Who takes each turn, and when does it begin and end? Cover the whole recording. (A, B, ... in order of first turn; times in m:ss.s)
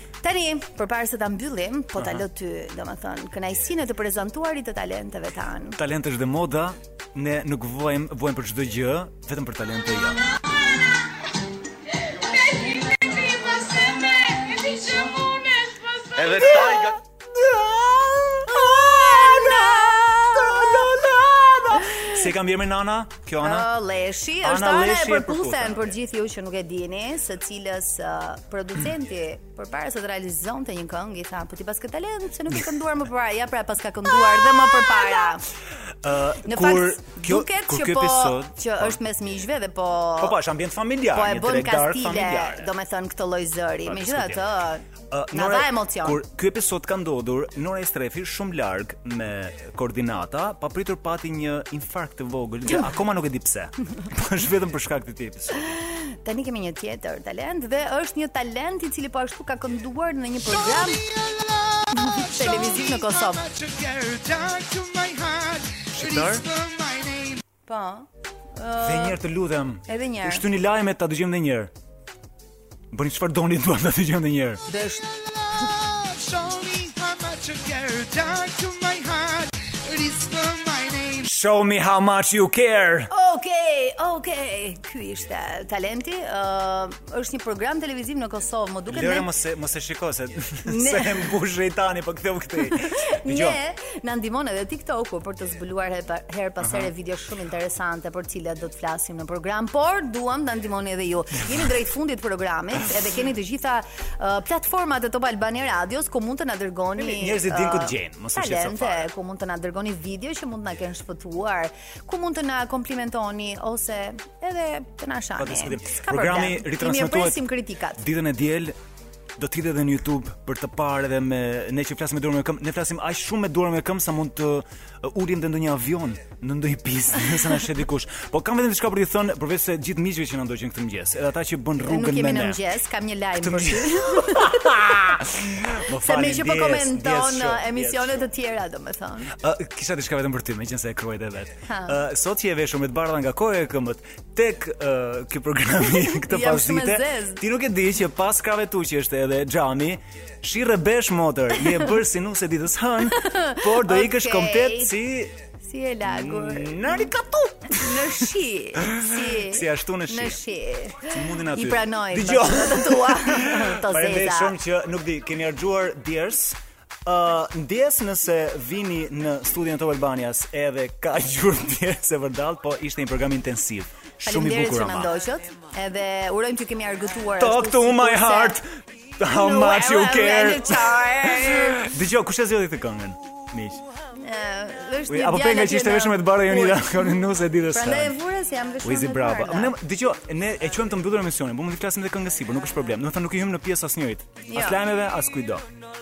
0:00.2-0:05.8 A
0:02.0-0:02.2 B
0:05.8-0:10.3 B
0:16.2-0:23.7 B
0:18.5-0:20.8 A
0:21.8-0:22.2 A
0:23.4-0:35.4 A
0:24.4-0:26.0 B
0:36.0-0:39.0 B
0:36.4-0:40.4 A
0:40.2-0:42.7 B
0:41.1-0:46.2 A
0:43.8-0:44.6 B
0:45.1-0:55.8 B
0:55.6-1:01.1 A
1:01.9-1:03.5 A
1:05.9-1:06.5 B
1:07.6-1:09.2 A
1:08.8-1:11.7 B
1:09.8-1:10.4 A
1:12.9-1:14.6 B
1:14.7-1:15.0 A
1:21.2-1:23.1 B
1:23.1-1:29.3 A
1:28.9-1:33.6 B
1:30.6-1:31.3 A
1:32.6-1:58.0 A
1:36.6-1:36.9 B
1:47.0-1:49.1 B
1:55.4-1:57.4 B
1:58.0-1:58.8 B
1:59.4-2:12.6 B
2:11.8-2:14.7 A
2:13.4-2:18.3 B
2:15.9-2:19.3 A
2:19.3-2:35.4 B
2:21.7-2:22.0 A
2:25.8-2:27.4 A
2:31.6-2:31.9 A
2:33.2-2:34.9 A
2:35.6-2:37.1 A
2:36.0-2:38.3 B
2:37.7-2:44.6 A
2:38.8-2:40.4 B
2:41.1-2:55.1 B
2:54.2-2:58.6 A
2:57.4-3:03.8 B
2:59.3-3:01.9 A
3:04.1-3:09.7 A
3:05.1-3:08.2 B
3:08.8-3:15.6 B
3:14.4-3:14.8 A